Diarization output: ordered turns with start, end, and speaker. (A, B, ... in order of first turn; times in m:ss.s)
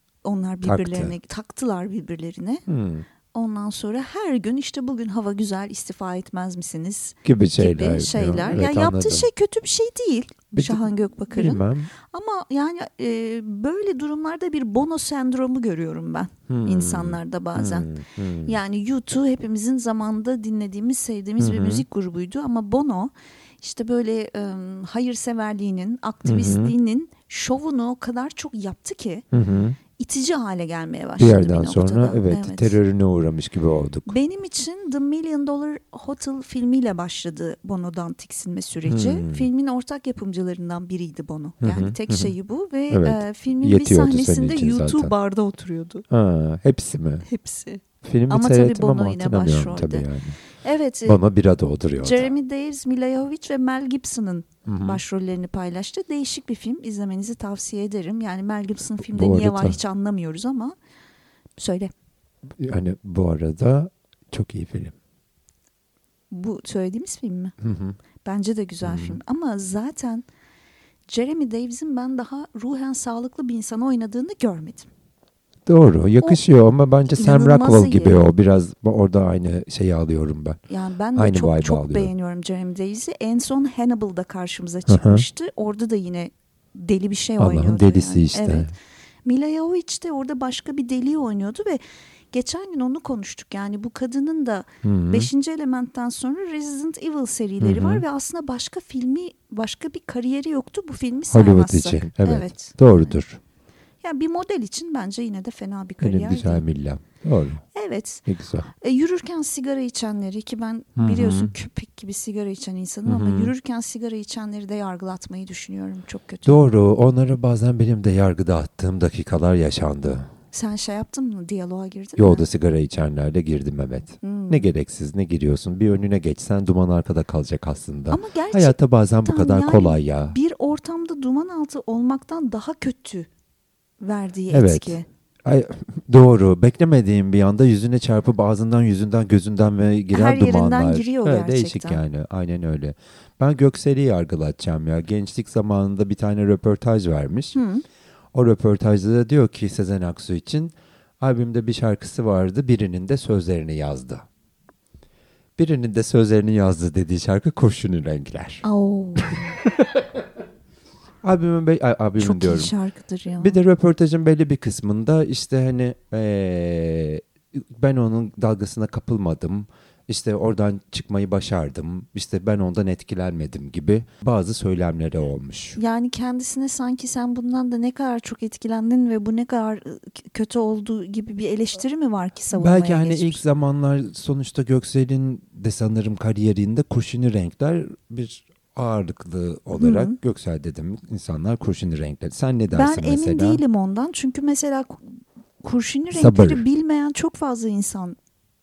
0:00.2-0:02.6 A
0:00.6-0:01.1 B
0:02.7-0:03.1 B
0:03.3-0:17.9 A
0:07.2-0:09.3 B
0:10.5-0:11.9 B
0:16.5-0:18.6 B
0:18.5-0:29.3 A
0:21.4-0:21.8 B
0:26.2-0:26.7 B
0:29.3-0:29.8 B
0:30.0-0:32.8 A
0:31.2-0:34.2 B
0:34.1-0:46.0 A
0:38.9-0:39.5 B
0:41.6-0:42.3 B
0:42.9-0:45.1 B
0:46.1-0:47.2 B
0:47.2-0:50.1 A
0:48.0-0:50.4 B
0:50.6-0:51.2 A
0:51.0-0:52.3 B
0:52.0-1:00.7 A
0:54.7-0:55.0 B
0:59.0-0:59.8 B
1:01.6-1:01.9 A
1:02.6-1:04.9 B
1:06.3-1:07.5 A
1:07.6-1:08.0 B
1:08.2-1:10.2 A
1:08.8-1:09.2 B
1:11.1-1:14.9 A
1:15.7-1:20.6 B
1:17.1-1:18.2 A
1:20.7-1:28.7 A
1:21.2-1:22.1 B
1:24.9-1:25.2 B
1:27.4-1:28.7 B
1:29.3-1:43.1 A
1:34.8-1:35.3 B
1:37.6-1:38.0 B
1:41.3-1:43.4 B
1:44.0-1:46.6 A
1:46.0-1:47.6 B
1:47.8-1:56.7 A
1:48.3-1:48.7 B
1:51.0-1:51.5 B
1:53.1-1:53.5 B
1:56.5-2:00.3 B
2:00.5-2:02.5 A
2:02.2-2:10.4 B
2:04.2-2:04.7 A
2:08.1-2:13.3 A
2:14.0-2:15.1 A
2:14.5-2:27.6 B
2:20.1-2:22.0 A
2:27.5-2:27.8 A
2:28.3-2:34.2 B
2:35.6-2:38.6 B
2:38.6-2:39.6 A
2:39.2-2:40.1 B
2:41.2-2:42.7 B
2:42.2-2:43.6 A
2:43.4-2:55.8 B
2:55.8-3:03.4 A
3:02.5-3:13.6 B
3:09.8-3:10.2 A
3:12.8-3:15.0 A
3:15.6-3:18.2 A
3:16.1-3:16.6 B